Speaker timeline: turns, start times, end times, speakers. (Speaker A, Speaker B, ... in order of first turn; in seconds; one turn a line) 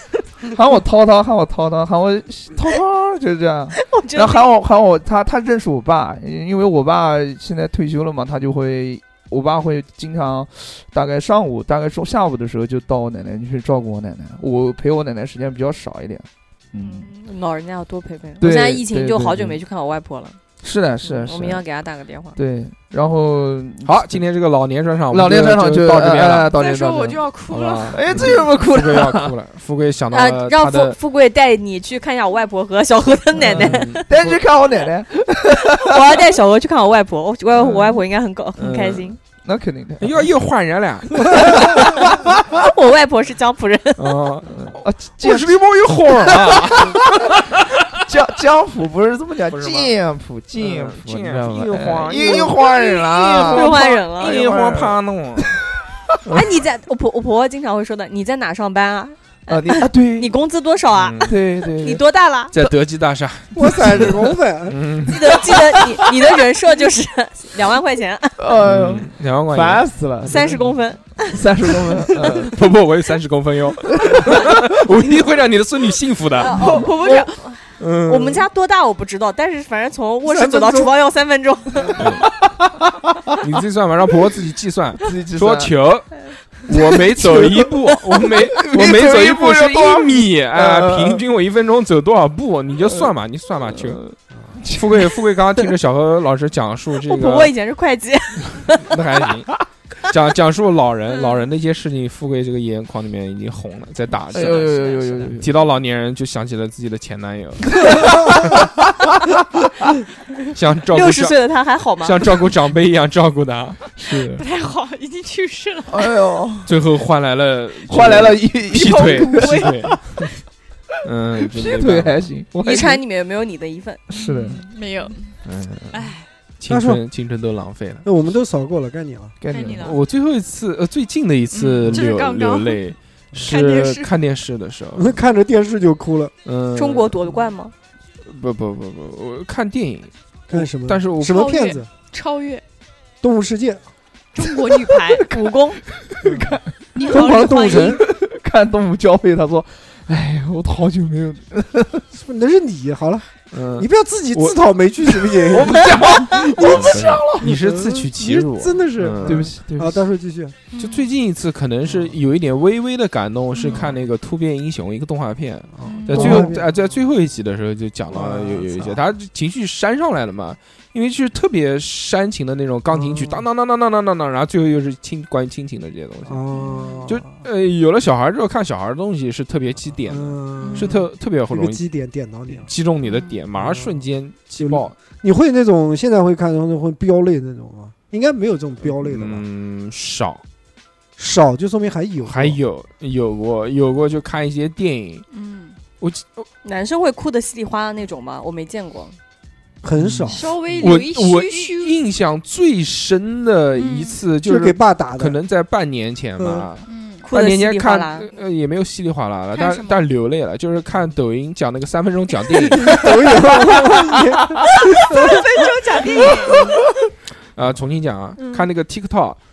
Speaker A: 0.4-17.1
Speaker B: 3.7-4.5
Speaker B: 16.7-20.4
Speaker A: 18.4-19.6
Speaker A: 20.6-21.6
Speaker B: 21.0-22.4
Speaker A: 22.4-24.2
Speaker C: 23.8-26.5
Speaker A: 25.1-27.2
Speaker D: 26.5-28.0
Speaker C: 27.5-30.9
Speaker A: 27.9-29.3
Speaker B: 30.1-34.3
Speaker A: 33.4-36.2
Speaker C: 33.4-34.0
Speaker B: 35.6-39.2
Speaker C: 37.6-37.9
Speaker C: 38.6-39.1
Speaker A: 39.4-40.3
Speaker C: 40.0-41.7
Speaker A: 41.2-42.5
Speaker B: 41.3-44.2
Speaker C: 44.0-47.8
Speaker A: 44.5-45.6
Speaker A: 46.2-47.4
Speaker A: 47.9-56.1
Speaker C: 49.5-49.9
Speaker C: 50.6-52.6
Speaker B: 52.3-54.5
Speaker C: 53.5-55.6
Speaker B: 56.2-62.5
Speaker A: 59.5-60.3
Speaker C: 60.9-61.3
Speaker A: 61.2-62.0
Speaker C: 62.5-65.6
Speaker E: 63.5-64.8
Speaker B: 65.0-68.6
Speaker A: 65.5-66.2
Speaker A: 68.4-70.8
Speaker C: 68.6-69.9
Speaker B: 70.3-72.3
Speaker A: 71.3-72.6
Speaker C: 72.5-76.7
Speaker A: 73.9-75.1
Speaker B: 76.4-82.1
Speaker D: 76.4-77.3
Speaker A: 76.6-76.9
Speaker C: 77.8-78.5
Speaker E: 80.2-80.9
Speaker C: 82.0-82.4
Speaker A: 82.9-83.3
Speaker C: 83.4-94.1
Speaker A: 85.0-85.7
Speaker A: 87.0-87.7
Speaker A: 88.2-91.2
Speaker A: 93.7-95.2
Speaker C: 94.7-97.5
Speaker B: 97.0-99.0
Speaker C: 98.5-108.5
Speaker A: 104.3-105.5
Speaker A: 107.7-109.6
Speaker C: 110.5-111.4
Speaker B: 110.9-112.3
Speaker C: 112.0-113.9
Speaker A: 114.0-114.4
Speaker D: 114.1-116.1
Speaker A: 115.9-116.7
Speaker C: 116.7-120.1
Speaker A: 117.9-120.0
Speaker D: 119.2-119.9
Speaker C: 121.0-122.2
Speaker A: 121.4-123.0
Speaker B: 122.6-124.0
Speaker A: 124.1-124.6
Speaker D: 124.1-125.3
Speaker C: 125.4-128.1
Speaker D: 125.9-126.2
Speaker E: 126.7-127.0
Speaker E: 128.0-129.3
Speaker A: 129.4-129.9
Speaker D: 129.5-130.0
Speaker C: 129.8-135.2
Speaker D: 131.5-132.8
Speaker D: 133.4-134.1
Speaker E: 134.9-136.3
Speaker C: 136.4-137.1
Speaker B: 136.7-137.7
Speaker C: 138.2-141.4
Speaker E: 140.5-141.9
Speaker D: 141.2-142.6
Speaker E: 143.2-143.8
Speaker D: 144.3-145.2
Speaker A: 144.9-152.0
Speaker B: 145.3-145.8
Speaker D: 146.9-148.0
Speaker E: 147.1-148.0
Speaker E: 152.1-160.6
Speaker C: 153.5-154.6
Speaker A: 155.3-157.5
Speaker C: 156.4-159.5
Speaker A: 159.2-160.0
Speaker D: 160.7-161.1
Speaker C: 160.8-176.4
Speaker D: 163.5-163.9
Speaker E: 165.8-166.8
Speaker D: 165.8-166.5
Speaker A: 166.1-166.5
Speaker E: 168.1-169.0
Speaker E: 172.9-173.4
Speaker E: 176.2-177.4
Speaker D: 176.5-177.1
Speaker C: 177.1-181.8
Speaker E: 180.1-180.9
Speaker D: 180.6-181.0
Speaker E: 181.5-182.7
Speaker C: 182.5-184.9
Speaker D: 183.0-183.3
Speaker E: 183.5-184.0
Speaker E: 184.6-189.4
Speaker C: 188.8-190.4
Speaker E: 191.2-192.6
Speaker C: 192.2-195.2
Speaker D: 195.3-195.8
Speaker C: 196.0-196.5
Speaker B: 196.6-199.2
Speaker E: 199.8-200.8
Speaker D: 200.3-201.9
Speaker C: 200.8-213.0
Speaker D: 203.7-204.2
Speaker E: 204.4-205.3
Speaker E: 206.4-206.7
Speaker D: 206.8-207.2
Speaker B: 207.2-208.3
Speaker D: 209.5-210.0
Speaker E: 212.8-215.4
Speaker D: 215.0-216.8
Speaker E: 216.1-216.8
Speaker C: 217.5-219.4
Speaker D: 218.4-218.7